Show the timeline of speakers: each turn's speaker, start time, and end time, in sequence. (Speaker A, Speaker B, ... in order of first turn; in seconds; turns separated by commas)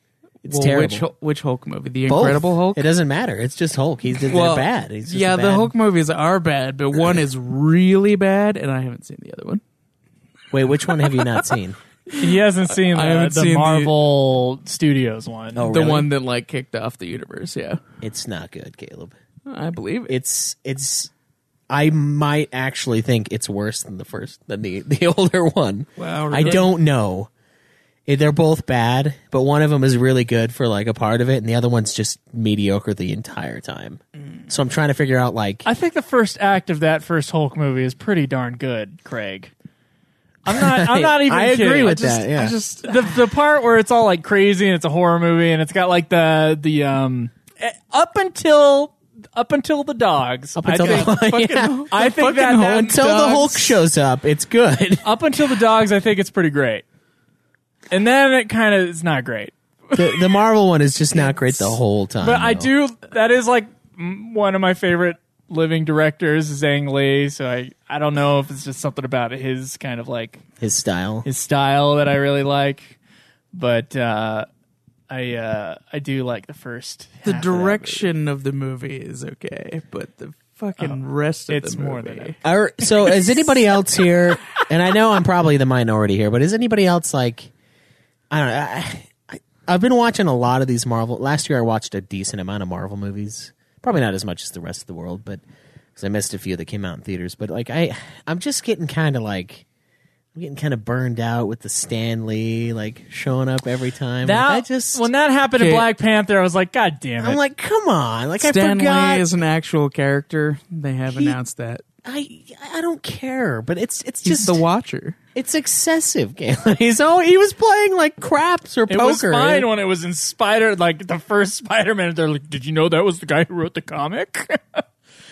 Speaker A: 0.4-1.1, Speaker B: 0.4-2.9, Speaker A: 2.1-5.7, Speaker B: 4.3-9.6, Speaker A: 6.9-7.2, Speaker A: 10.5-11.8, Speaker B: 11.0-11.4, Speaker B: 12.1-13.9, Speaker C: 12.1-15.7, Speaker A: 15.5-16.1, Speaker B: 15.7-17.8, Speaker A: 18.0-19.1, Speaker B: 19.5-20.1, Speaker A: 20.1-21.1, Speaker A: 21.7-27.3, Speaker B: 26.0-26.7, Speaker A: 28.1-35.7, Speaker C: 35.6-39.5, Speaker C: 40.4-52.9, Speaker A: 40.5-42.6, Speaker B: 42.2-43.2, Speaker A: 50.5-51.9, Speaker B: 51.6-53.8, Speaker A: 52.6-55.1, Speaker C: 55.0-56.8, Speaker C: 57.9-60.3, Speaker A: 60.0-62.7, Speaker C: 61.1-70.4, Speaker A: 70.6-71.2, Speaker C: 71.2-73.0, Speaker C: 73.5-74.5, Speaker C: 75.1-78.1, Speaker B: 77.2-82.4, Speaker C: 80.8-82.4, Speaker A: 82.4-87.5, Speaker A: 88.3-95.4, Speaker A: 96.0-99.6, Speaker A: 100.3-105.1, Speaker C: 104.2-107.4, Speaker B: 105.5-105.9, Speaker A: 107.2-109.3, Speaker B: 108.4-111.8, Speaker A: 111.1-111.4, Speaker A: 112.0-114.6, Speaker B: 114.2-115.2, Speaker A: 115.3-119.7, Speaker C: 118.9-124.8